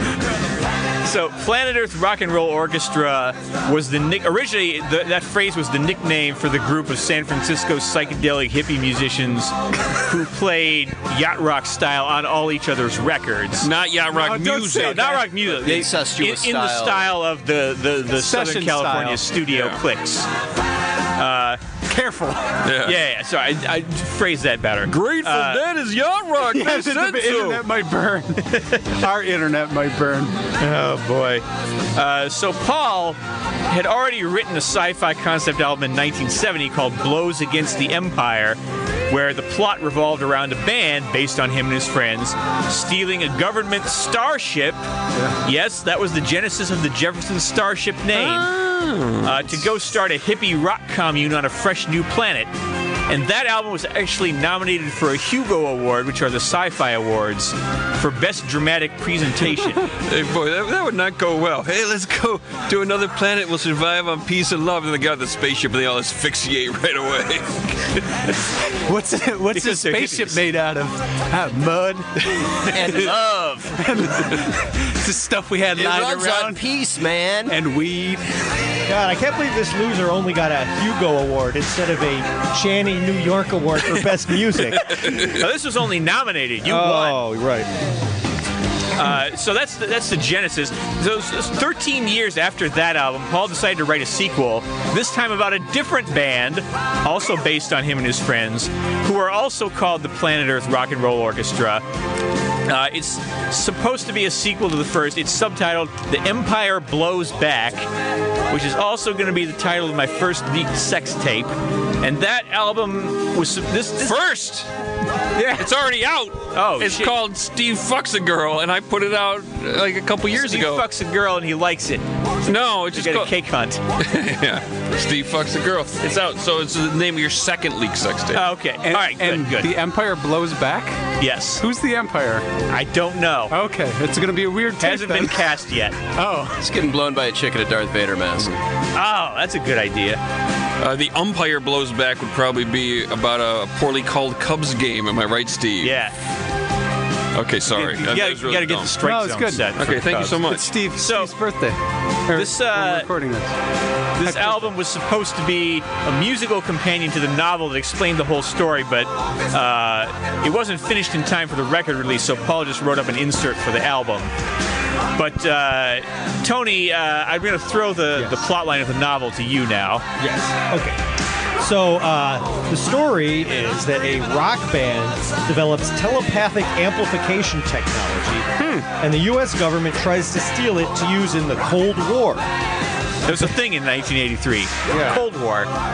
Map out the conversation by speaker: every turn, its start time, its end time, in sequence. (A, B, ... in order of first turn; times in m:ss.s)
0:01.0-0:13.7 A
0:13.6-0:15.1 B
0:14.1-0:15.3 C
0:14.7-0:20.3 A
0:15.4-0:17.1 D
0:18.2-0:19.3 C
0:19.5-0:19.8 B
0:21.1-0:21.6 A
0:21.9-0:22.6 C
0:22.6-0:23.0 B
0:22.8-0:25.6 A
0:24.8-0:27.6 B
0:26.4-0:30.4 C
0:30.6-0:44.8 A
0:45.4-0:48.5 A
0:48.1-0:49.4 B
0:49.2-0:52.5 A
0:53.1-0:59.9 A
0:59.9-1:08.3 B
1:08.8-1:12.6 C
1:09.5-1:10.4 A
1:12.7-1:13.8 D
1:13.7-1:16.6 C
1:15.7-1:17.6 D
1:17.5-1:18.3 C
1:18.8-1:25.2 E
1:24.9-1:27.2 A
1:26.6-1:27.7 E
1:28.9-1:41.8 A
1:42.7-1:47.9 A
1:48.5-1:54.2 A
1:54.0-1:54.7 B
1:55.3-1:55.7 A
1:55.5-2:00.8 B
1:56.5-1:57.1 A
2:00.3-2:02.0 A
2:02.4-2:03.3 B
2:02.9-2:03.8 A
2:04.0-2:08.4 B
2:08.3-2:09.7 A
2:08.8-2:11.0 C
2:11.2-2:11.6 A
2:11.6-2:12.5 C
2:12.7-2:13.6 A
2:13.5-2:15.5 C
2:14.8-2:16.0 A
2:16.1-2:16.6 C
2:16.6-2:18.6 D
2:18.9-2:20.2 A
2:20.8-2:26.0 B
2:25.8-2:26.1 A
2:27.3-2:28.9 B
2:27.7-2:31.3 A
2:29.0-2:29.8 C
2:29.8-2:30.7 B
2:30.4-2:33.5 C
2:32.3-2:33.1 A
2:34.2-2:34.7 C
2:34.2-2:44.3 A
2:45.1-2:50.0 A
2:50.2-2:51.0 E
2:51.6-2:58.5 E
2:58.6-2:58.9 B
2:59.0-3:02.5 E
3:03.2-3:05.7 A
3:04.9-3:05.2 E